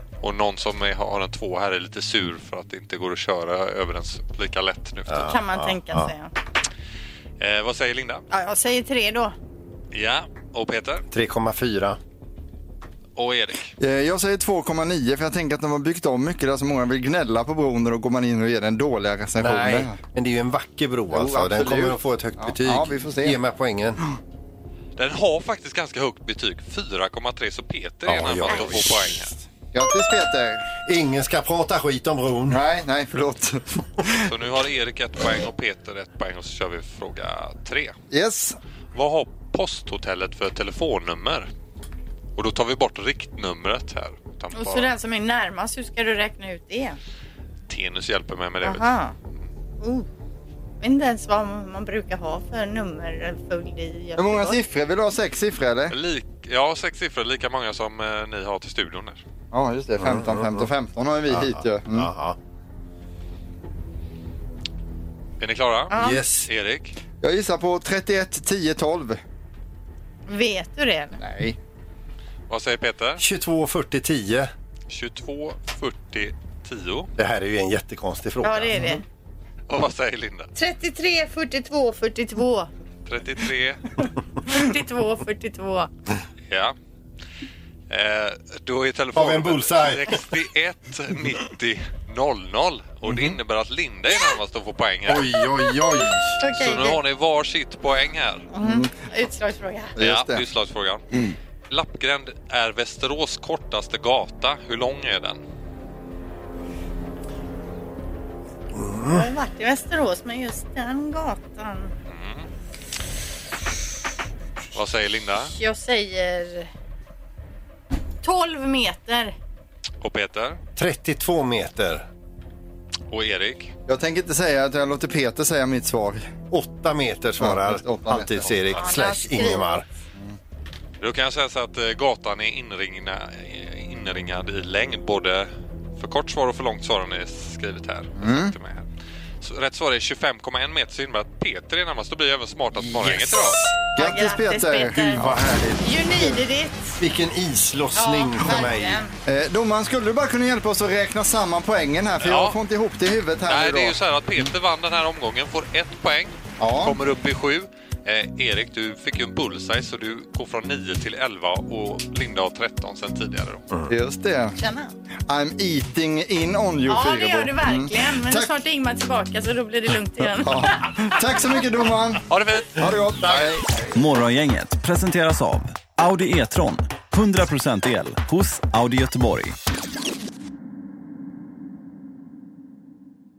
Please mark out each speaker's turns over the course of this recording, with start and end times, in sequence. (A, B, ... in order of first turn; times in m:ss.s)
0:00.2-0:05.3 A
0:05.1-0:06.1 B
0:05.2-0:06.3 C
0:07.4-0:08.2 A
0:08.3-0:09.3 C
0:09.9-0:11.0 A
0:11.1-0:12.0 B
0:13.2-0:13.7 A
0:13.8-0:20.0 D
0:19.4-0:24.0 B
0:21.1-0:23.4 D
0:25.0-0:29.3 A
0:28.0-0:29.4 B
0:29.7-0:30.7 D
0:30.8-0:32.6 B
0:32.5-0:34.2 D
0:34.2-0:38.0 A
0:38.1-0:38.6 D
0:38.9-0:41.5 A
0:42.4-0:44.9 A
0:44.5-0:47.0 C
0:47.7-0:48.9 A
0:48.6-0:49.1 C
0:49.8-0:50.1 C
0:50.8-0:54.6 C
0:54.2-0:56.0 D
0:55.9-0:59.2 A
0:59.5-1:02.1 D
1:00.0-1:00.7 B
1:01.3-1:02.4 B
1:05.4-1:05.9 A
1:05.9-1:06.2 C
1:05.9-1:06.5 B
1:06.5-1:06.9 A
1:07.2-1:09.2 D
1:10.3-1:11.2 C
1:11.2-1:11.6 D
1:12.5-1:13.2 A
1:13.2-1:14.5 B
1:14.9-1:17.1 A
1:17.2-1:18.9 B
1:18.4-1:19.0 C
1:19.7-1:20.5 A
1:20.5-1:22.7 C
1:23.1-1:23.8 A
1:24.4-1:25.9 C
1:26.5-1:26.8 A
1:27.9-1:35.3 A
1:29.1-1:30.2 B
1:33.0-1:33.3 B
1:35.1-1:36.4 B
1:36.4-1:37.0 C
1:36.4-1:38.5 A
1:38.5-1:40.0 C
1:38.6-1:38.9 D
1:40.0-1:40.4 D
1:40.0-1:41.2 A
1:41.7-1:45.4 A
1:48.7-1:49.2 B
1:49.0-1:51.9 C
1:52.1-1:52.5 A
1:54.7-1:55.5 A
1:55.4-1:56.7 C
1:58.2-1:59.3 C
2:00.0-2:00.6 A
2:00.8-2:02.0 B
2:03.1-2:03.7 A
2:03.9-2:06.3 D
2:06.5-2:09.8 B
2:07.4-2:08.6 D
2:08.7-2:09.8 C
2:11.0-2:18.9 A
2:18.2-2:18.5 D
2:19.4-2:23.6 A
2:22.8-2:23.7 B
2:23.9-2:26.3 D
2:24.0-2:27.0 C
2:27.0-2:29.0 B
2:27.9-2:29.1 C
2:29.2-2:34.0 D
2:32.2-2:32.6 A
2:33.5-2:43.6 A
2:36.6-2:37.0 D
2:43.9-2:44.6 D
2:44.6-2:44.9 C
2:45.3-2:48.5 D
2:46.8-2:50.8 C
2:50.4-2:52.2 D
2:52.3-2:53.6 A
2:52.7-2:53.6 D
2:54.0-2:59.6 E